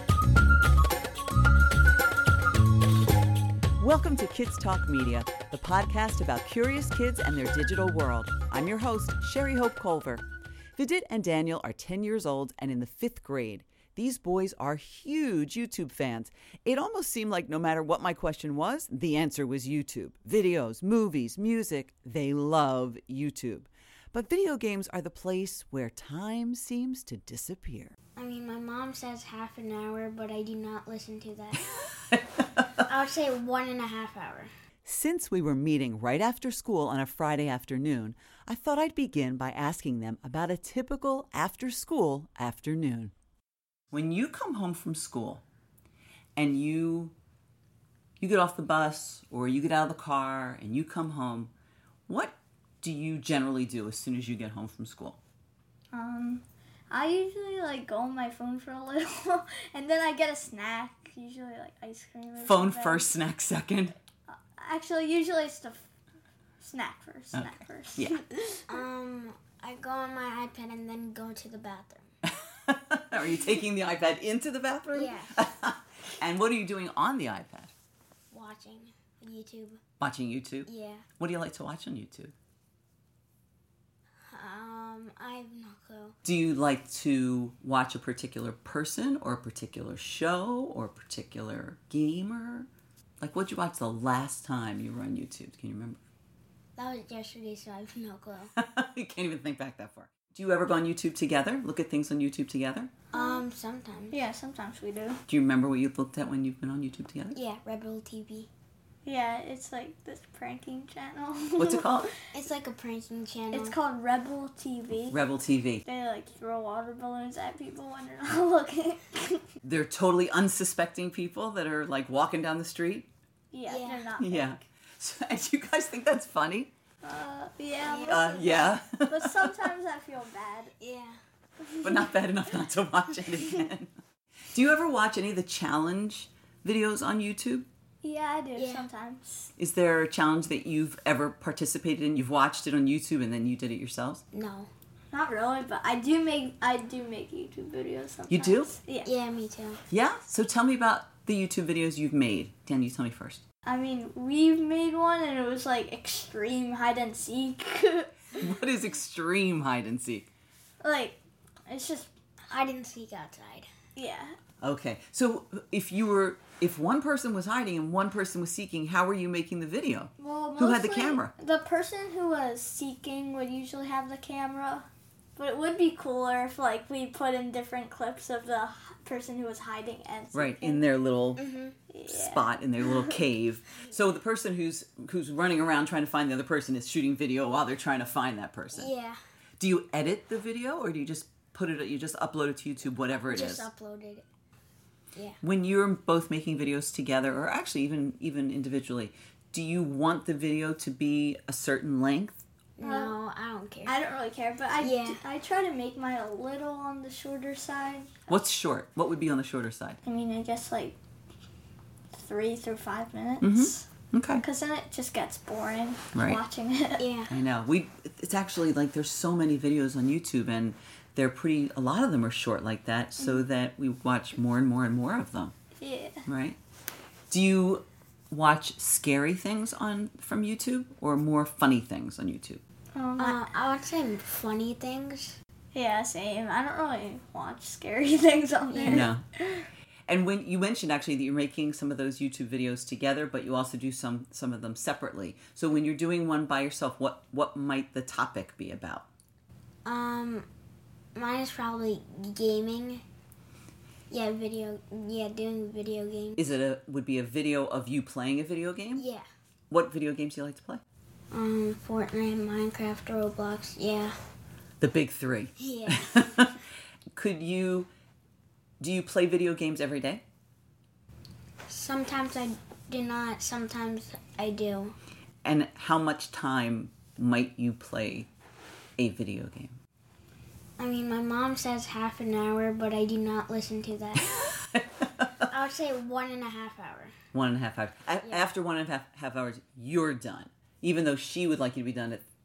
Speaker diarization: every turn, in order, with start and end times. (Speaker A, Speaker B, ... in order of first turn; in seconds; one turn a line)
Speaker A: 3.8-10.2
Speaker A: 10.8-27.9
Speaker B: 28.2-31.9
Speaker A: 31.6-32.7
Speaker B: 32.9-34.5
Speaker A: 34.8-43.1
Speaker A: 43.9-45.4
Speaker A: 46.4-47.1
Speaker A: 48.2-51.5
Speaker A: 52.1-55.2
Speaker C: 55.9-63.1
Speaker A: 62.4-64.0
Speaker C: 64.3-65.9
Speaker C: 66.6-68.8
Speaker A: 67.3-68.2
Speaker B: 68.7-72.1
Speaker A: 72.2-77.7
Speaker B: 74.9-75.3
Speaker B: 78.3-79.8
Speaker A: 80.0-82.3
Speaker B: 80.7-81.0
Speaker B: 84.3-86.2
Speaker A: 86.2-92.7
Speaker A: 93.2-96.0
Speaker B: 96.8-98.5
Speaker A: 98.5-102.9
Speaker C: 103.1-103.4
Speaker B: 103.1-104.2
Speaker C: 104.1-105.2
Speaker A: 105.3-107.4
Speaker B: 107.3-108.5
Speaker C: 109.0-112.2
Speaker A: 111.6-112.1
Speaker B: 112.3-113.8
Speaker C: 113.5-115.2
Speaker A: 115.1-115.8
Speaker C: 115.8-119.4
Speaker A: 119.6-123.1
Speaker C: 123.5-124.7
Speaker B: 123.7-124.1
Speaker A: 124.2-126.7
Speaker C: 127.0-130.7
Speaker B: 127.8-128.3
Speaker A: 128.0-129.5
Speaker B: 130.8-131.2
Speaker C: 131.6-132.1
Speaker A: 131.8-133.9
Speaker C: 133.2-133.6
Speaker A: 134.5-137.7
Speaker C: 138.0-139.5
Speaker B: 138.6-138.9
Speaker A: 139.6-144.2
Speaker B: 144.3-144.7
Speaker C: 145.1-149.1
Speaker A: 148.3-148.7
Speaker B: 149.0-149.8
Speaker A: 149.9-153.4
Speaker C: 153.6-158.5
Speaker A: 158.4-160.3
Speaker C: 160.8-162.1
Speaker B: 162.5-163.7
Speaker C: 163.9-164.4
Speaker A: 164.6-171.3
Speaker C: 170.2-174.8
Speaker C: 175.4-180.9
Speaker A: 180.3-181.4
Speaker B: 181.4-181.8
Speaker C: 181.9-183.2
Speaker A: 182.1-188.9
Speaker B: 188.7-189.2
Speaker A: 189.6-193.7
Speaker B: 193.3-194.2
Speaker A: 195.4-202.4
Speaker B: 202.8-203.9
Speaker C: 202.8-203.1
Speaker C: 203.8-208.3
Speaker B: 204.8-205.2
Speaker A: 208.3-210.0
Speaker C: 210.0-210.9
Speaker C: 212.1-213.9
Speaker A: 213.4-214.4
Speaker C: 214.4-217.0
Speaker A: 216.1-216.4
Speaker B: 217.0-217.3
Speaker A: 217.3-225.5
Speaker C: 223.2-223.4
Speaker C: 225.8-226.2
Speaker A: 226.2-226.6
Speaker A: 227.3-232.6
Speaker C: 232.9-233.4
Speaker B: 233.2-235.4
Speaker C: 235.7-239.7
Speaker B: 238.7-239.1
Speaker A: 238.8-239.2
Speaker A: 240.1-249.1
Speaker B: 249.8-250.5
Speaker B: 251.1-253.0
Speaker B: 254.1-256.6
Speaker A: 256.4-259.1
Speaker B: 258.9-259.2
Speaker A: 259.7-260.8
Speaker B: 261.3-264.1
Speaker A: 264.8-266.6
Speaker B: 265.6-266.3
Speaker A: 267.1-267.9
Speaker A: 268.8-270.2
Speaker B: 271.7-274.9
Speaker A: 275.4-278.3
Speaker A: 279.0-279.7
Speaker B: 280.8-284.6
Speaker A: 284.3-285.4
Speaker B: 285.5-287.1
Speaker A: 287.3-292.2
Speaker B: 288.2-288.5